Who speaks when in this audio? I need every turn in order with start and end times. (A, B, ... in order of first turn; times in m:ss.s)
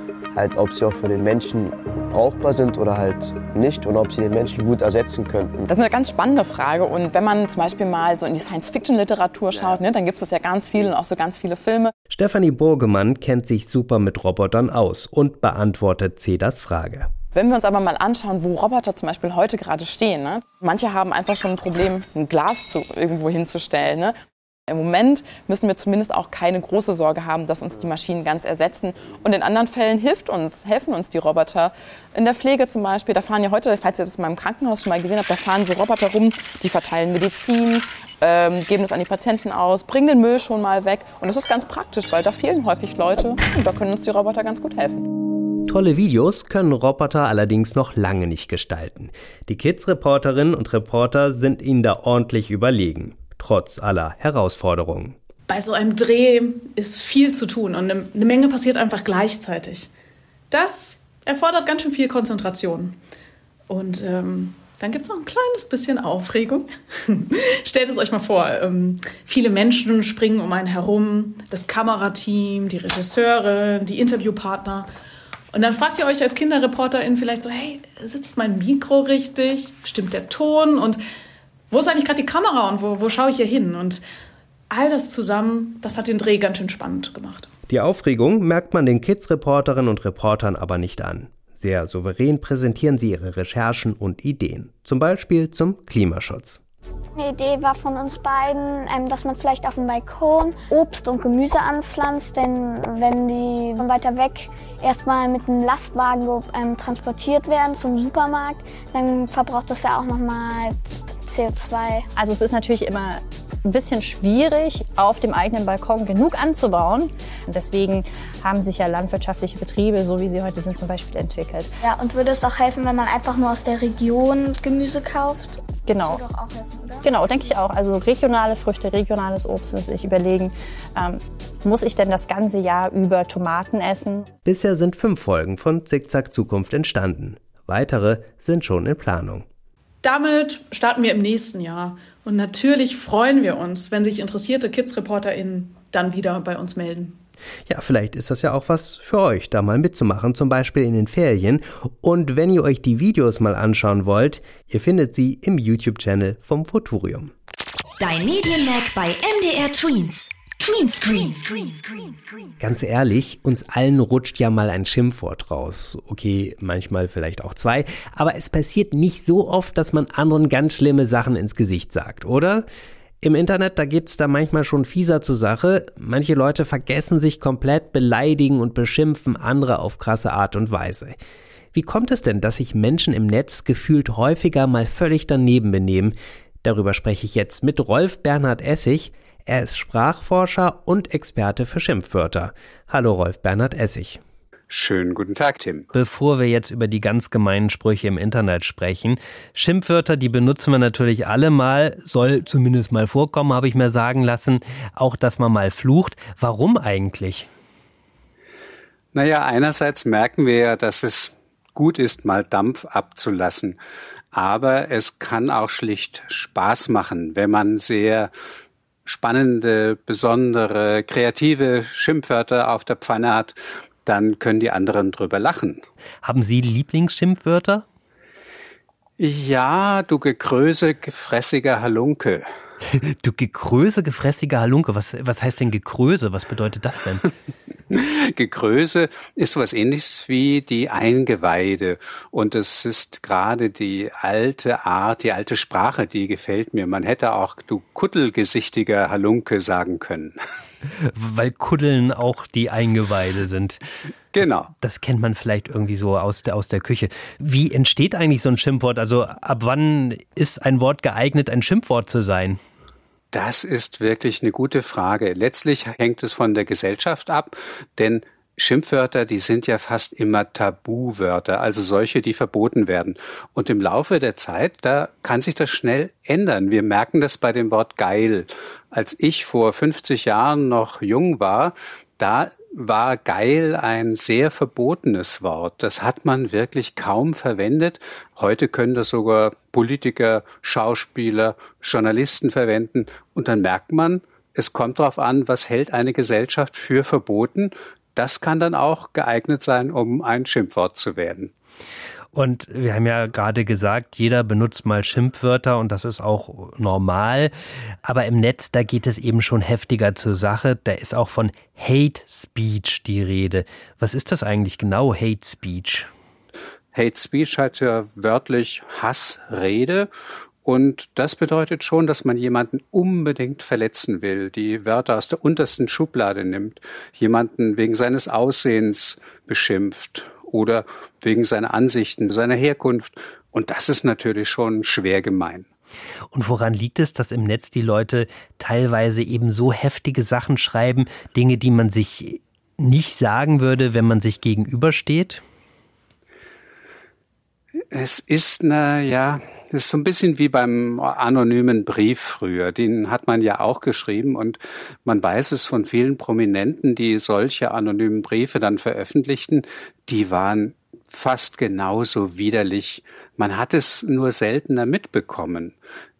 0:00.3-0:05.6 A
0:05.7-0:11.9 B
0:09.5-0:09.8 A
0:12.1-0:17.1 C
0:17.3-0:24.1 B
0:24.7-0:45.1 B
0:45.6-0:55.1 C
0:55.5-0:59.9 D
1:00.5-1:03.0 D
1:03.7-1:14.9 D
1:15.5-1:21.0 D
1:21.7-1:24.0 D
1:24.7-1:27.5 D
1:27.7-1:36.6 C
1:37.2-1:52.0 E
1:52.2-2:01.7 F
2:01.8-2:07.1 E
2:05.8-2:06.2 F
2:07.0-2:14.3 F
2:14.4-2:19.4 C
2:20.0-2:27.2 D
2:27.7-2:37.3 C
2:38.0-2:42.2 G
2:42.6-2:52.6 C
2:53.2-3:01.2 C
3:01.7-3:14.2 C
3:14.7-3:15.9 H
3:15.9-3:27.5 C
3:29.1-3:33.8 H
3:34.3-3:38.3 H
3:39.0-3:45.8 H
3:46.2-3:47.8 C
3:49.2-3:52.4 H
3:53.0-3:57.2 C
3:57.9-4:10.4 H
4:10.8-4:13.8 C
4:14.3-4:14.7 H
4:14.4-4:22.6 C
4:23.3-5:01.5 H
5:02.3-5:07.5 C
5:08.0-5:16.1 C
5:16.9-5:20.1 H
5:20.6-5:35.7 H
5:36.3-5:45.4 C
5:47.9-6:05.8 H